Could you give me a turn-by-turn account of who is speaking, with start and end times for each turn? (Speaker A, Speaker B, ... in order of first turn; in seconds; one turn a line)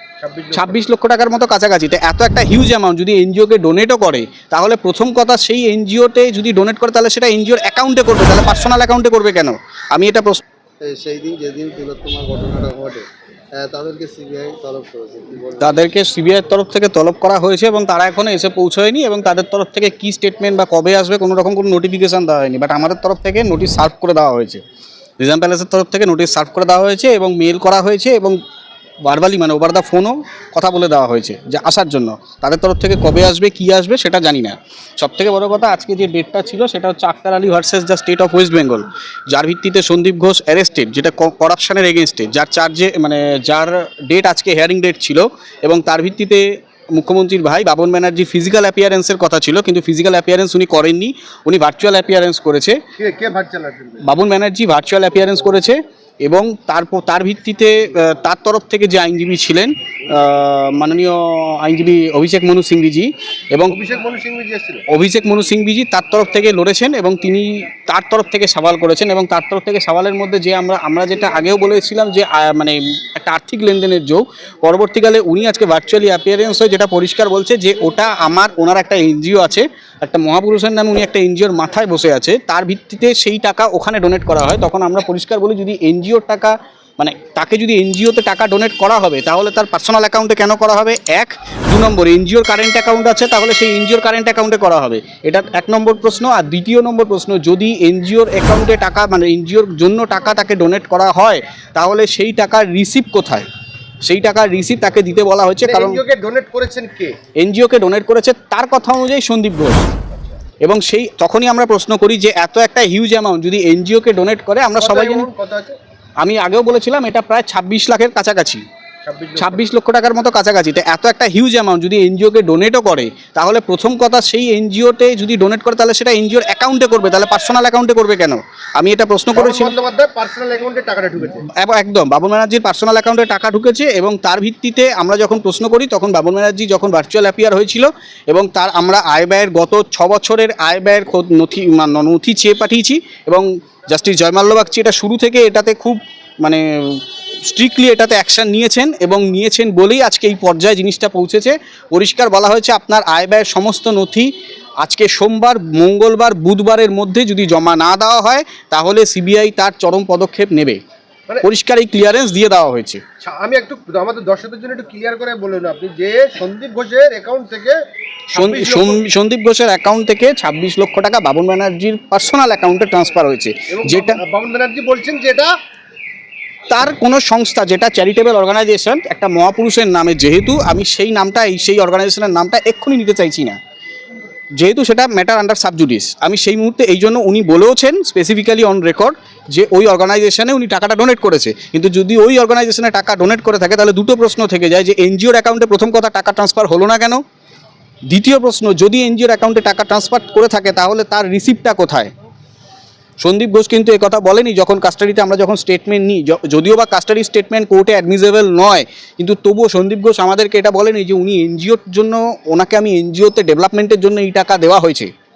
Speaker A: 0.2-0.8
Speaker B: 0.5-10.4
Speaker C: 10.8-15.8
Speaker B: 15.6-24.6
Speaker B: 25.2-28.4
Speaker B: 29.0-52.8
Speaker A: 53.0-54.0
Speaker B: 54.0-63.8
Speaker A: 63.7-64.8
Speaker B: 64.9-103.5
Speaker B: 104.0-106.0
Speaker A: 105.6-107.2
Speaker B: 107.4-109.9
Speaker B: 110.6-115.3
Speaker A: 114.8-115.8
Speaker B: 116.2-118.6
Speaker A: 119.1-119.6
Speaker B: 119.4-129.8
Speaker A: 129.3-131.5
Speaker B: 131.4-160.8
Speaker B: 161.4-163.0
Speaker A: 163.2-167.8
Speaker B: 168.3-174.2
Speaker A: 168.3-169.0
Speaker A: 173.7-175.5
Speaker B: 176.7-183.6
Speaker B: 184.6-197.2
Speaker B: 198.1-202.1
Speaker B: 203.2-215.1